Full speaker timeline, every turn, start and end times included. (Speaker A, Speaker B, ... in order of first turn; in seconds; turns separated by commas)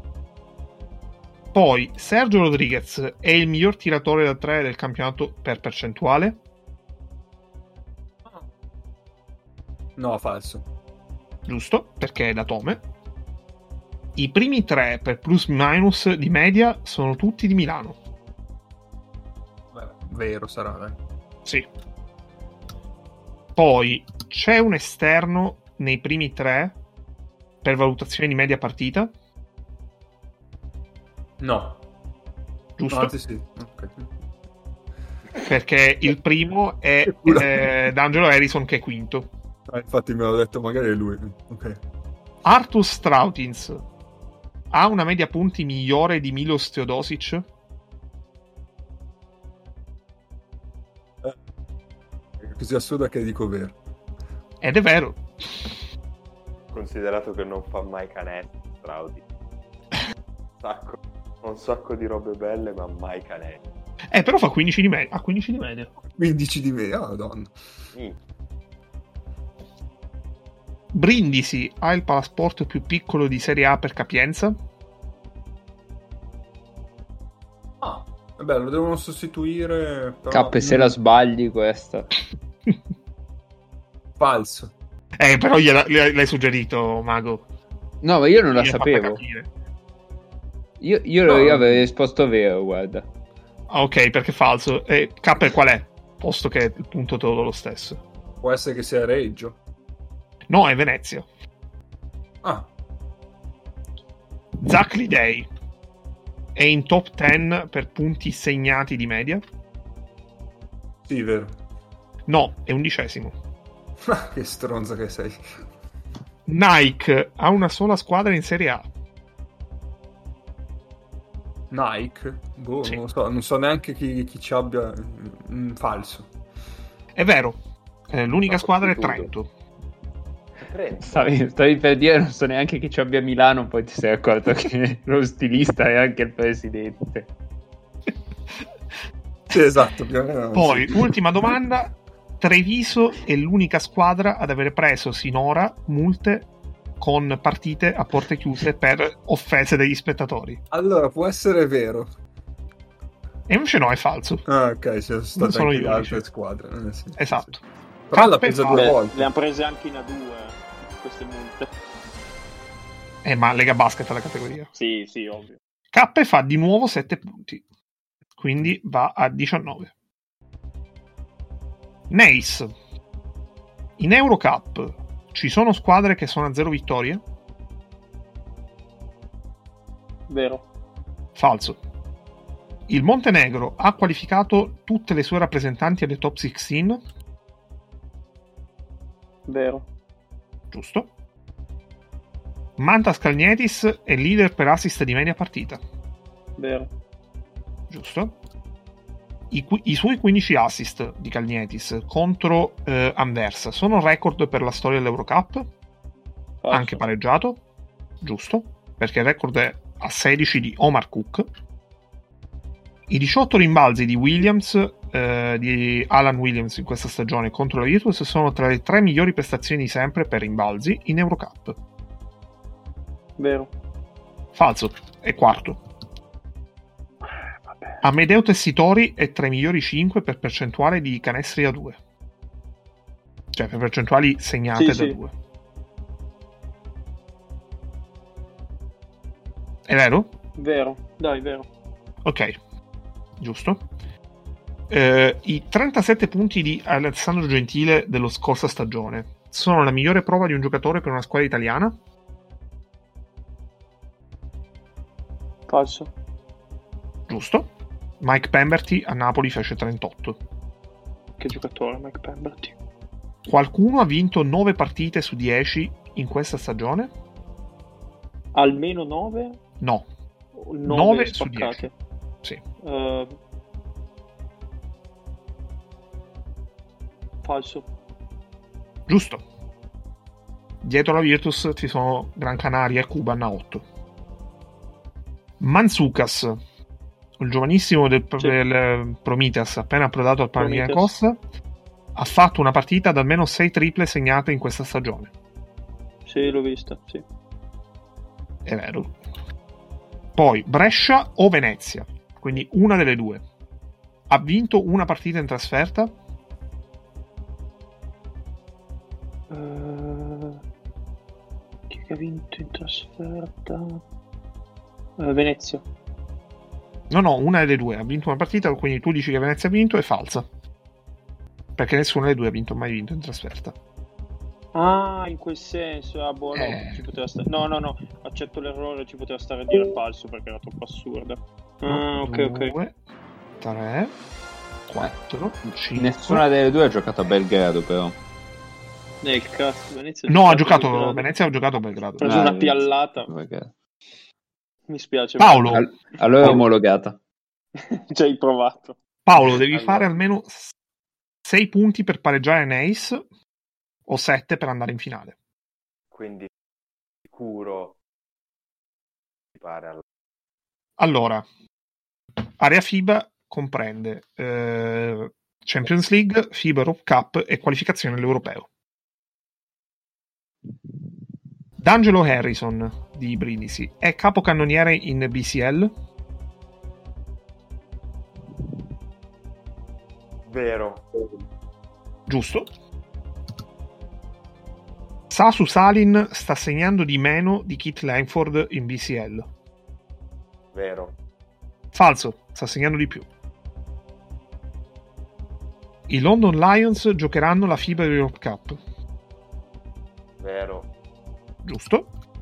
Speaker A: 1.5-6.4, Speaker B: 10.0-10.6, Speaker A: 11.4-12.8, Speaker A: 14.2-17.9, Speaker B: 19.7-21.0, Speaker A: 23.6-26.8, Speaker A: 27.6-29.1, Speaker B: 31.4-31.8, Speaker A: 32.8-33.1, Speaker B: 32.9-34.1, Speaker A: 35.4-39.3, Speaker B: 37.1-37.7, Speaker B: 39.7-41.8, Speaker A: 42.4-43.8, Speaker A: 44.7-47.5, Speaker B: 52.4-53.8, Speaker A: 54.6-55.7, Speaker C: 56.7-59.2, Speaker C: 60.6-63.6, Speaker A: 64.1-65.9, Speaker B: 66.0-67.5, Speaker A: 70.9-74.6, Speaker B: 77.8-80.9, Speaker D: 80.3-82.1, Speaker B: 84.2-84.7, Speaker A: 85.2-87.4, Speaker D: 88.0-89.2, Speaker A: 88.5-89.5, Speaker D: 90.8-93.1, Speaker B: 91.3-91.8, Speaker A: 93.7-98.0, Speaker B: 98.4-99.6, Speaker A: 100.5-101.2, Speaker B: 102.4-102.7, Speaker A: 104.6-105.5, Speaker A: 106.5-109.4, Speaker B: 111.0-111.5, Speaker A: 112.3-113.3, Speaker B: 114.0-115.4, Speaker A: 116.5-118.9, Speaker B: 121.7-126.3, Speaker A: 127.2-127.6, Speaker A: 128.1-129.5, Speaker C: 128.8-129.1, Speaker C: 130.6-131.3, Speaker D: 131.0-137.3, Speaker B: 139.5-141.1, Speaker A: 140.5-150.6, Speaker B: 150.7-152.1, Speaker A: 153.5-154.4, Speaker B: 154.4-157.5, Speaker A: 155.4-156.2, Speaker A: 157.2-157.6, Speaker B: 158.1-159.3, Speaker A: 158.1-158.9, Speaker E: 158.7-161.7, Speaker A: 163.2-164.7, Speaker E: 164.7-165.6, Speaker A: 165.9-167.6, Speaker A: 168.4-169.9, Speaker A: 172.1-172.7, Speaker A: 174.0-177.2, Speaker E: 180.3-180.6, Speaker A: 181.3-181.8, Speaker A: 182.9-187.0, Speaker E: 189.5-189.8, Speaker A: 190.7-191.1, Speaker A: 192.8-195.8, Speaker E: 196.6-196.9, Speaker A: 197.9-198.3, Speaker A: 199.5-205.7, Speaker E: 206.6-207.0, Speaker A: 206.7-207.6, Speaker A: 208.2-211.5, Speaker A: 213.1-221.8, Speaker E: 223.4-223.7, Speaker A: 224.5-225.8, Speaker E: 227.7-228.0, Speaker A: 228.0-232.0, Speaker A: 233.5-235.3, Speaker E: 234.7-235.2, Speaker A: 239.9-240.3, Speaker E: 240.6-241.7, Speaker A: 242.2-242.5, Speaker A: 243.4-243.8, Speaker A: 244.9-251.9, Speaker E: 255.7-256.1, Speaker A: 257.3-257.7, Speaker A: 258.2-260.4, Speaker E: 261.4-262.8, Speaker A: 263.4-267.1, Speaker E: 268.5-269.6, Speaker A: 269.8-270.1, Speaker E: 270.6-271.9, Speaker A: 270.8-271.9, Speaker E: 272.8-273.3, Speaker E: 277.4-277.9, Speaker A: 279.1-279.4, Speaker A: 280.8-283.8, Speaker A: 285.6-286.6, Speaker A: 287.4-291.4, Speaker E: 290.6-291.1, Speaker A: 292.1-295.3, Speaker E: 296.2-297.2, Speaker A: 298.6-299.2, Speaker A: 300.4-303.4, Speaker A: 304.3-306.1, Speaker E: 309.5-310.6, Speaker E: 311.9-314.0, Speaker E: 315.2-315.8, Speaker A: 317.1-320.5, Speaker A: 321.8-323.7, Speaker E: 324.7-332.7, Speaker A: 326.5-327.0, Speaker A: 331.9-332.9, Speaker A: 333.6-334.1, Speaker A: 334.9-336.4, Speaker D: 335.9-338.2, Speaker E: 339.2-341.3, Speaker A: 340.3-342.5, Speaker E: 342.2-343.3, Speaker D: 342.2-343.7, Speaker E: 344.9-345.8, Speaker A: 345.4-345.9, Speaker D: 345.7-347.2, Speaker E: 347.8-349.0, Speaker A: 349.2-350.7, Speaker E: 349.5-350.1, Speaker A: 351.4-353.2, Speaker A: 354.1-355.3, Speaker C: 356.1-356.5, Speaker C: 357.2-358.0, Speaker C: 359.5-360.0, Speaker A: 361.0-361.4, Speaker A: 362.6-368.7, Speaker A: 371.8-375.9, Speaker C: 380.4-381.1, Speaker A: 382.3-382.7, Speaker A: 385.3-389.5, Speaker C: 390.7-391.1, Speaker A: 391.9-393.3, Speaker A: 396.1-398.8, Speaker C: 400.4-400.9, Speaker A: 401.6-402.1